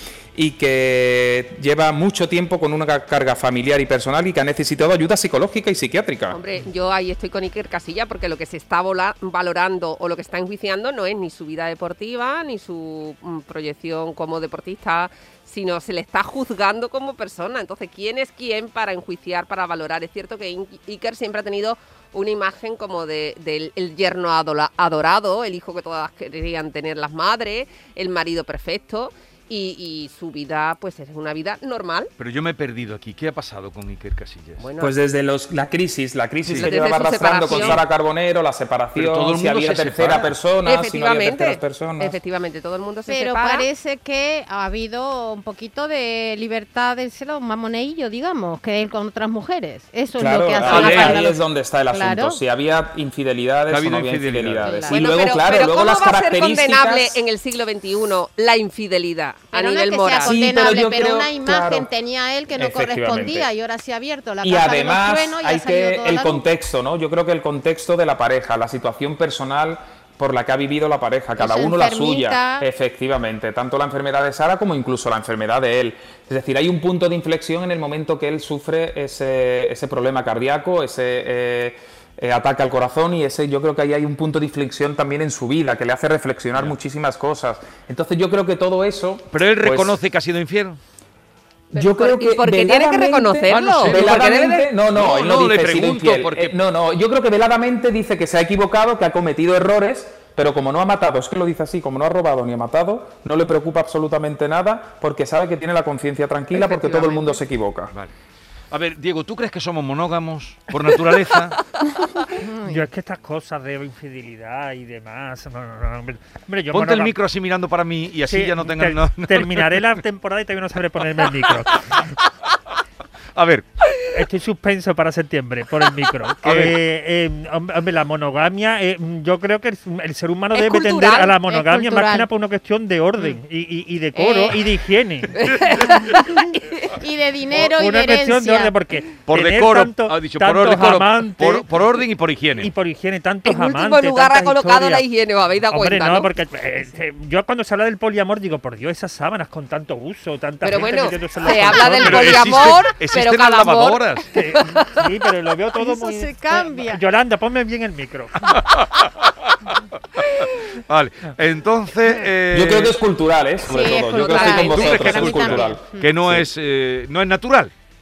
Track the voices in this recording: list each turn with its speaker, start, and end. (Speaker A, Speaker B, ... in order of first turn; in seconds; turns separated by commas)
Speaker A: 0.3-6.4, Speaker B: 6.3-32.1, Speaker C: 32.2-34.6, Speaker B: 34.6-35.0, Speaker A: 34.8-42.2, Speaker C: 36.5-36.7, Speaker B: 36.5-37.8, Speaker C: 37.5-37.8, Speaker C: 39.0-40.3, Speaker B: 40.6-43.7, Speaker D: 43.1-52.4, Speaker A: 50.2-57.2, Speaker C: 50.6-51.2, Speaker C: 53.7-54.8, Speaker D: 54.6-55.0, Speaker B: 54.8-60.4, Speaker D: 59.5-66.4, Speaker A: 60.2-61.9, Speaker A: 62.5-63.5, Speaker A: 64.4-90.0, Speaker D: 71.4-72.7, Speaker C: 89.3-90.8, Speaker B: 91.7-94.7, Speaker A: 91.8-107.9, Speaker C: 93.5-96.5, Speaker D: 106.5-107.4, Speaker C: 108.7-111.6, Speaker D: 112.4-112.9, Speaker E: 112.7-117.2, Speaker C: 116.7-119.8, Speaker E: 118.3-122.1, Speaker C: 123.3-123.7, Speaker E: 124.1-135.4, Speaker C: 126.4-126.8, Speaker B: 130.5-131.4, Speaker D: 131.4-132.3, Speaker D: 134.2-134.7, Speaker B: 135.3-136.9, Speaker D: 136.2-138.7, Speaker E: 137.5-141.7, Speaker C: 139.3-142.7, Speaker E: 142.6-145.1, Speaker B: 143.4-146.3, Speaker E: 145.7-152.4, Speaker B: 150.6-154.9, Speaker C: 151.8-154.3, Speaker E: 154.3-158.7, Speaker D: 155.8-157.0, Speaker C: 158.4-159.5, Speaker C: 160.2-163.0, Speaker A: 162.5-166.4, Speaker D: 163.7-166.1, Speaker B: 164.0-165.2, Speaker C: 164.6-167.7